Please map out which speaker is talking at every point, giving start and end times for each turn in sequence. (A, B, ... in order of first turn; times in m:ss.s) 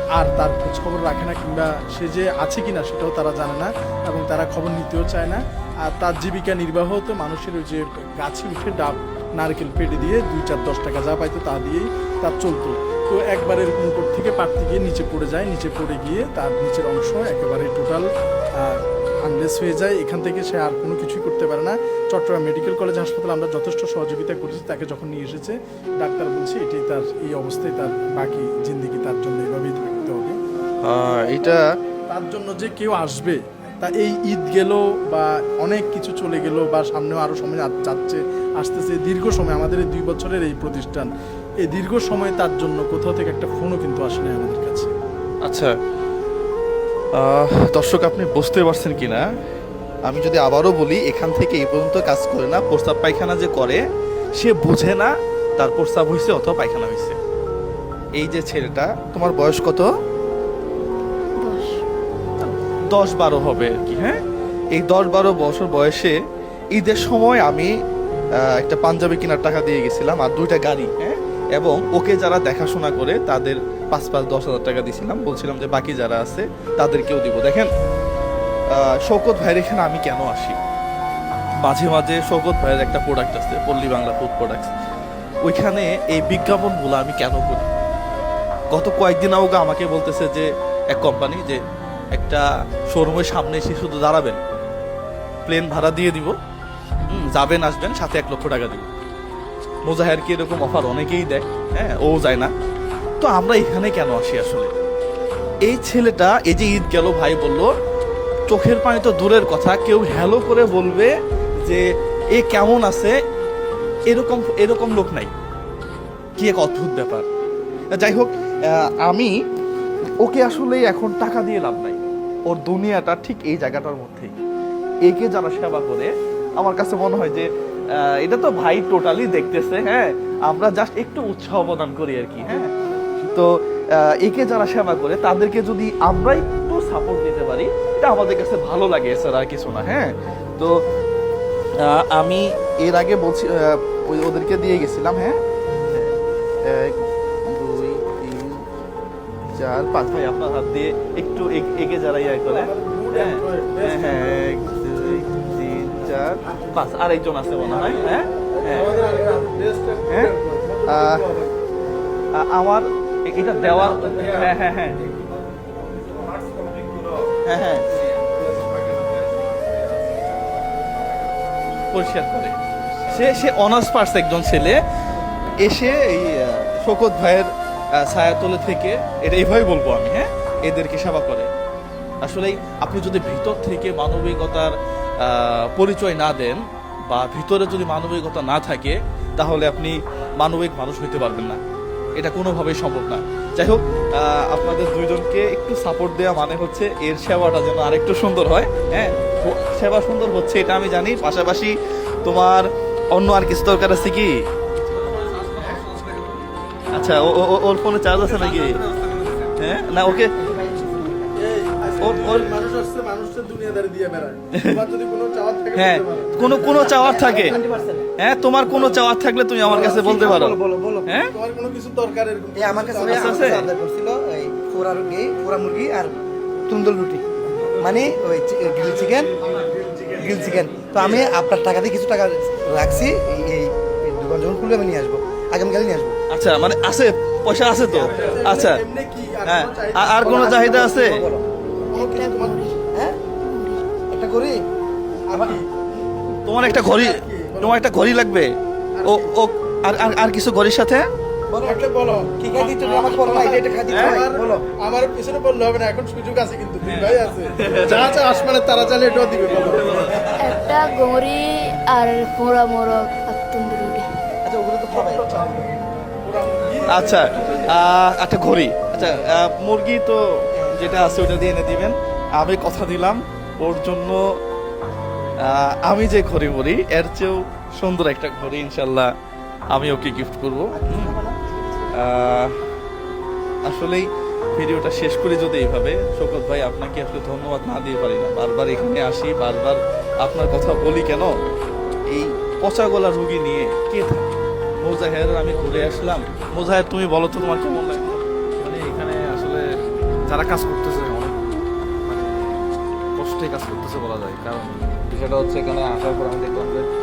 0:00.2-0:18.1 A
0:18.6-0:30.4 A
0:30.8-0:31.7 B
0:31.2-0:31.6 A
0:32.1-0:41.1 A
0:41.6-0:44.9 A
0:45.4-0:45.8 B
0:47.2-0:49.2 B
0:50.1-0:53.8 B
0:54.4-0:57.2 B
0:58.2-0:59.9 B
1:01.4-1:01.8 C
1:02.4-1:04.2 B
1:04.7-1:06.2 B
1:06.7-1:07.7 B
1:08.4-1:17.7 B
1:18.8-1:20.6 B
1:21.6-1:24.7 B
1:25.4-1:27.7 B
1:28.7-1:31.6 B
1:32.1-1:34.4 B
1:35.4-1:36.3 B
1:37.1-1:38.9 B
1:39.9-1:42.5 B
1:43.2-1:44.7 B
1:45.7-1:47.7 B
1:48.5-1:51.1 B
1:51.6-1:53.2 B
1:54.1-1:55.3 B
1:56.4-1:57.3 B
1:57.9-1:59.3 B
2:00.2-2:04.3 B
2:05.1-2:07.5 B
2:08.0-2:20.7 B
2:21.8-2:25.4 B
2:26.6-2:28.6 B
2:29.6-2:38.9 B
2:32.4-2:34.4 A
2:37.8-2:41.5 A
2:40.1-2:40.3 B
2:40.9-2:41.2 B
2:42.3-2:45.0 B
2:43.8-2:44.5 A
2:47.4-2:47.9 B
2:48.2-2:49.6 A
2:51.9-2:54.8 B
2:55.6-3:01.5 B
3:02.2-3:11.6 B
3:12.2-3:24.4 B
3:24.9-3:26.5 D
3:26.9-3:28.8 B
3:28.2-3:29.5 D
3:29.6-3:30.3 B
3:30.4-3:31.3 E
3:31.3-3:36.8 A
3:32.0-3:32.5 B
3:34.5-3:34.8 B
3:35.8-3:37.6 B
3:36.4-3:38.1 E
3:38.2-3:41.3 B
3:38.7-3:39.0 E
3:39.6-3:41.1 E
3:39.7-3:40.4 A
3:41.3-3:43.6 A
3:42.6-3:46.2 E
3:43.1-3:43.7 B
3:46.7-3:47.2 E
3:47.8-3:49.3 E
3:49.6-3:50.8 D
3:50.1-3:56.2 E
3:56.3-3:58.8 B
3:57.8-3:58.1 E
3:57.9-4:00.5 A
3:59.4-4:01.2 B
4:00.2-4:01.4 E
4:01.9-4:02.6 A
4:01.9-4:02.8 C
4:02.9-4:03.2 E
4:03.3-4:03.9 C
4:04.1-4:04.6 E
4:05.3-4:05.7 A
4:05.3-4:05.6 E
4:06.4-4:08.5 B
4:06.6-4:07.8 A
4:09.0-4:09.3 A
4:09.0-4:11.1 B
4:11.5-4:11.8 E
4:11.6-4:20.2 A
4:12.4-4:14.6 E
4:13.9-4:14.2 B
4:16.8-4:18.2 B
4:19.6-4:20.6 B
4:20.3-4:24.1 C
4:24.4-4:25.6 E
4:24.9-4:27.8 A
4:26.9-4:34.2 B
4:35.4-4:39.1 B
4:39.7-4:41.2 B
4:40.7-4:41.9 E
4:41.9-4:42.6 B
4:43.6-4:51.3 B
4:52.1-4:58.2 B
4:58.6-4:59.6 D
5:00.3-5:02.6 D
5:03.2-5:06.9 D